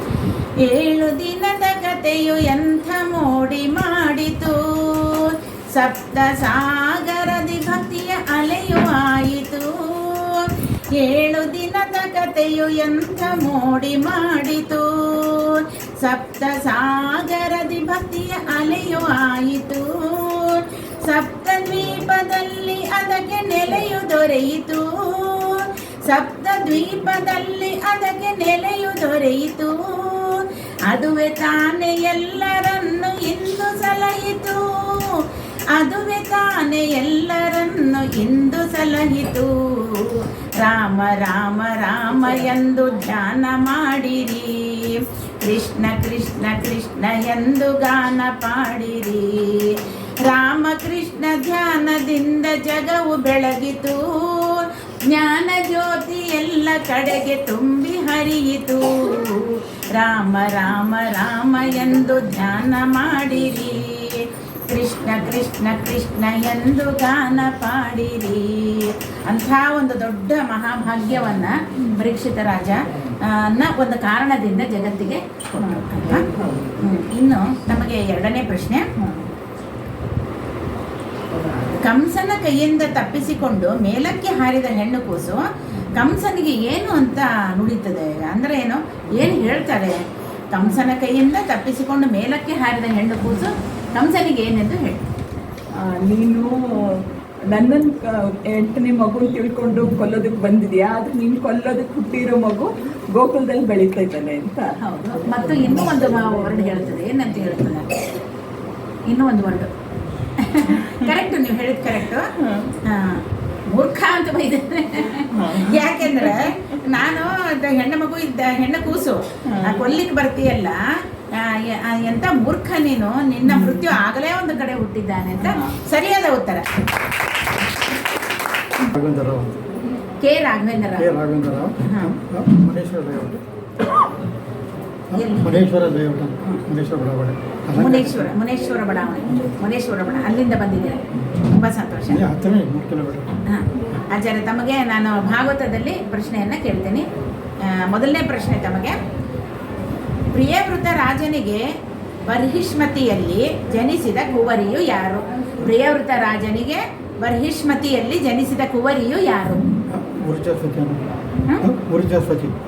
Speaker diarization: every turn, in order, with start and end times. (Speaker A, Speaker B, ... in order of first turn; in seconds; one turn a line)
Speaker A: 0.6-35.2
Speaker A: 35.7-78.8
Speaker B: 75.7-76.6
Speaker A: 81.8-90.0
Speaker A: 90.5-95.1
Speaker B: 95.8-104.7
Speaker A: 104.8-107.9
Speaker A: 109.1-109.7
Speaker A: 110.4-112.2
Speaker A: 112.8-120.8
Speaker B: 115.3-115.8
Speaker B: 119.5-119.8
Speaker A: 121.3-126.6
Speaker C: 128.9-129.6
Speaker A: 130.2-131.2
Speaker C: 131.0-133.4
Speaker A: 131.8-132.2
Speaker C: 135.1-138.3
Speaker A: 135.1-135.6
Speaker A: 137.8-142.2
Speaker C: 142.1-143.3
Speaker A: 143.4-147.1
Speaker A: 147.6-149.0
Speaker A: 150.3-151.6
Speaker A: 152.2-159.6
Speaker C: 159.9-162.5